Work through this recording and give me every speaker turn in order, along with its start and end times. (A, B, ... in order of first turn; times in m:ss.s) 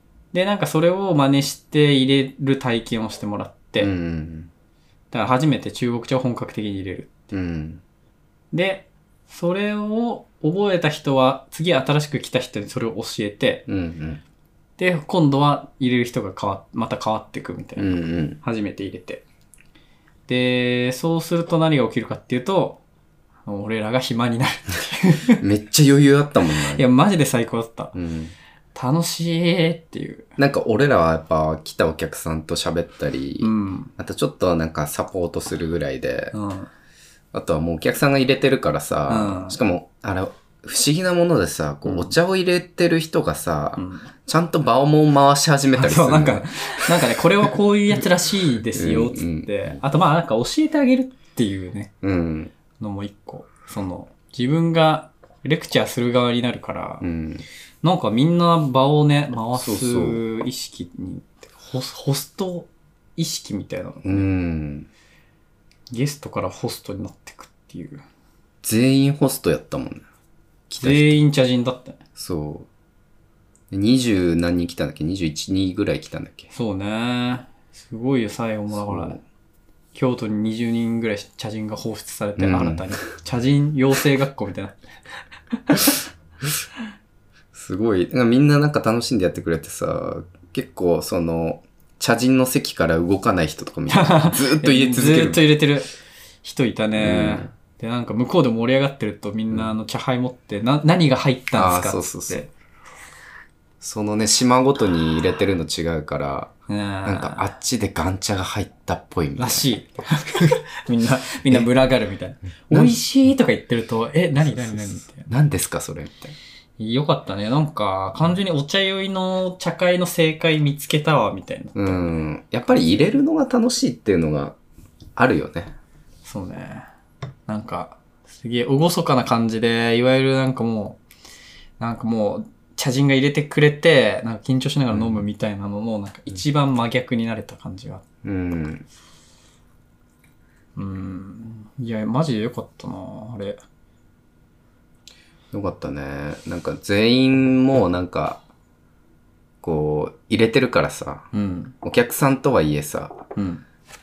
0:00.3-0:03.9 A
0:03.8-0:04.5 B
0:05.1-0:07.2 A
0:07.3-0:07.8 B
0:08.5-0:13.6 A
0:13.7-0:14.2 B
0:14.8-0:19.2 A
0:17.8-0:18.4 B
0:20.3-0:22.8 A
0:23.5-0:25.4 A
0:25.4-0:26.8 B
0:26.7-0:27.9 A
0:27.9-0:28.4 B
0:28.8-0:30.3 A
0:30.4-0:36.3 B
0:33.4-0:33.9 A
0:36.3-0:36.7 A
0:37.3-0:47.5 B
0:39.1-0:39.6 A
0:41.8-0:42.1 A
0:43.8-0:44.1 A
0:45.7-0:51.9 A
0:48.7-0:49.8 B
0:52.0-0:52.5 B
0:52.8-0:57.1 A
0:57.0-0:57.4 B
0:57.8-1:04.3 A
0:59.6-1:00.2 B
1:04.0-1:04.9 B
1:05.9-1:08.0 A
1:08.6-1:10.0 B
1:10.7-1:11.2 B
1:10.8-1:12.0 A
1:12.2-1:12.7 B
1:13.7-1:16.5 B
1:16.5-1:19.2 A
1:18.7-1:19.2 B
1:19.9-1:24.8 A
1:22.4-1:22.9 B
1:25.5-1:26.0 A
1:27.5-1:35.4 B
1:33.9-1:35.9 A
1:36.4-1:42.5 A
1:37.0-1:37.5 B
1:41.6-1:42.4 B
1:43.8-1:46.5 B
1:46.7-1:47.5 A
1:47.1-1:49.7 B
1:49.4-1:55.3 A
1:52.7-1:53.0 B
1:54.4-1:56.3 B
1:56.8-2:02.2 A
2:01.8-2:04.6 B
2:05.2-2:05.7 B
2:06.2-2:06.9 A
2:07.5-2:11.0 A
2:11.8-2:18.0 A
2:14.9-2:15.2 B
2:18.2-2:18.9 B
2:20.8-2:23.6 A
2:25.5-2:28.4 B
2:29.6-2:31.3 B
2:31.3-2:31.8 A
2:31.8-2:33.2 B
2:33.4-2:33.6 A